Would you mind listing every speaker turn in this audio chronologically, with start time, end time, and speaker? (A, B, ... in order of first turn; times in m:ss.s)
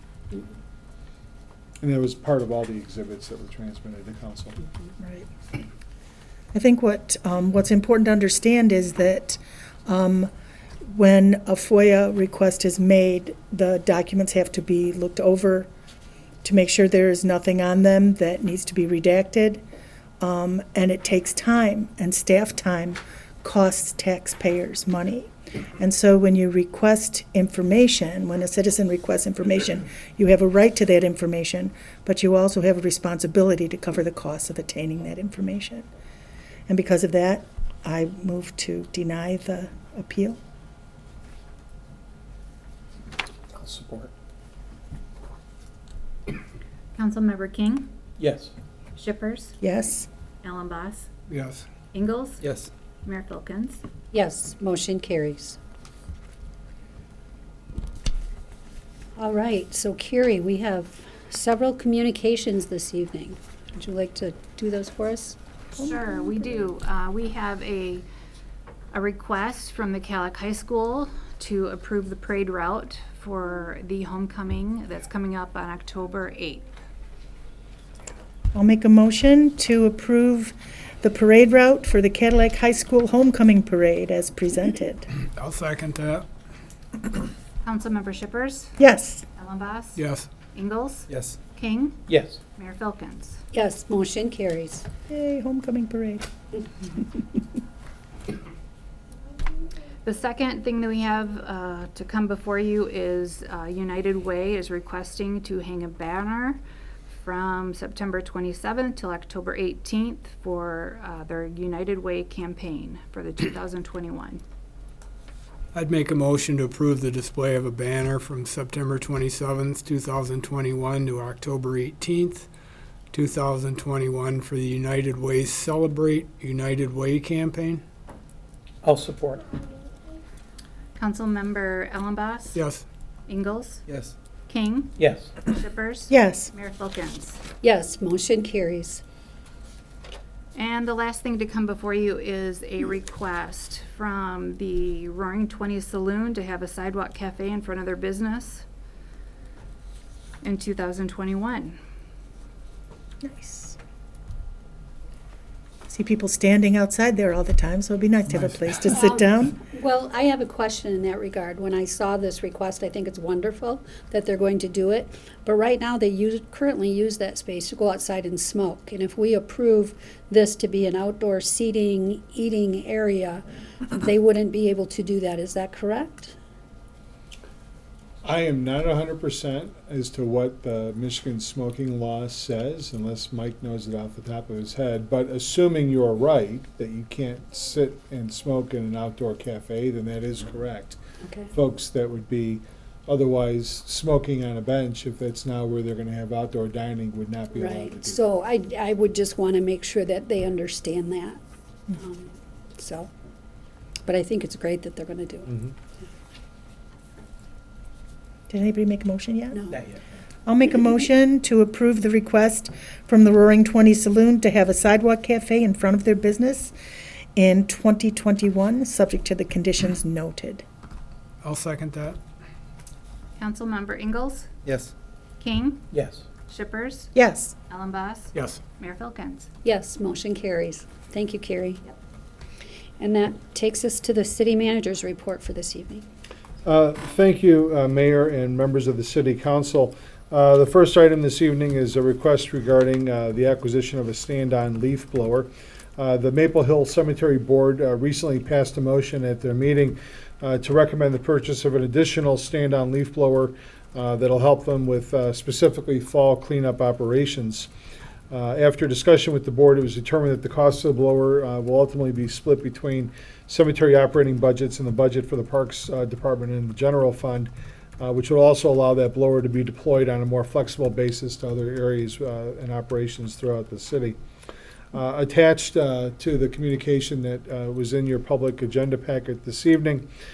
0:01.8-0:04.6 A
0:05.0-0:05.3 B
0:06.5-0:10.3 B
0:10.9-0:15.7 B
0:16.4-0:19.6 B
0:20.2-0:35.9 B
0:36.7-0:40.4 B
0:43.6-0:44.1 A
0:47.0-0:47.9 C
0:48.2-0:48.5 D
0:49.0-0:49.5 C
0:49.6-0:50.1 B
0:50.4-0:51.1 C
0:51.3-0:51.7 E
0:51.9-0:52.4 C
0:52.4-0:52.7 D
0:53.0-0:53.8 C
0:54.1-0:55.6 F
0:59.2-1:05.4 F
1:05.8-1:08.1 C
1:05.8-1:06.2 B
1:08.9-1:16.7 C
1:18.5-1:25.1 B
1:25.4-1:26.3 E
1:27.6-1:28.7 C
1:28.8-1:29.3 B
1:29.4-1:33.4 C
1:30.0-1:30.3 E
1:31.1-1:31.4 D
1:32.1-1:32.4 D
1:33.5-1:34.9 F
1:35.1-1:36.3 B
1:40.0-1:54.4 C
1:55.7-2:02.5 E
2:03.1-2:07.8 E
2:08.8-2:09.4 D
2:11.0-2:12.6 C
2:12.6-2:12.8 E
2:13.3-2:13.8 C
2:13.9-2:14.1 D
2:14.5-2:17.4 C
2:15.0-2:15.4 D
2:16.1-2:16.5 B
2:17.6-2:19.0 F
2:20.6-2:28.6 C
2:30.4-2:31.8 C
2:33.2-2:33.8 B
2:35.9-2:39.6 B
2:38.9-2:56.4 F
2:58.2-3:11.0 A
3:11.2-3:11.5 F
3:11.5-3:18.3 A
3:17.6-3:21.4 F
3:22.0-3:23.1 F
3:24.0-3:25.6 F
3:28.5-3:29.6 B
3:29.5-3:29.8 F
3:29.7-3:30.0 D
3:30.5-3:36.7 B
3:37.4-3:40.6 B
3:41.4-3:42.2 E
3:43.4-3:44.5 C
3:44.6-3:44.9 D
3:45.4-3:45.9 C
3:45.9-3:46.2 D
3:46.5-3:47.1 C
3:47.2-3:47.6 B
3:47.7-3:49.5 C
3:48.3-3:48.6 E
3:49.6-3:51.8 F
3:53.0-3:56.1 F
3:56.6-4:17.7 A
4:18.3-4:34.2 A
4:34.9-4:40.1 A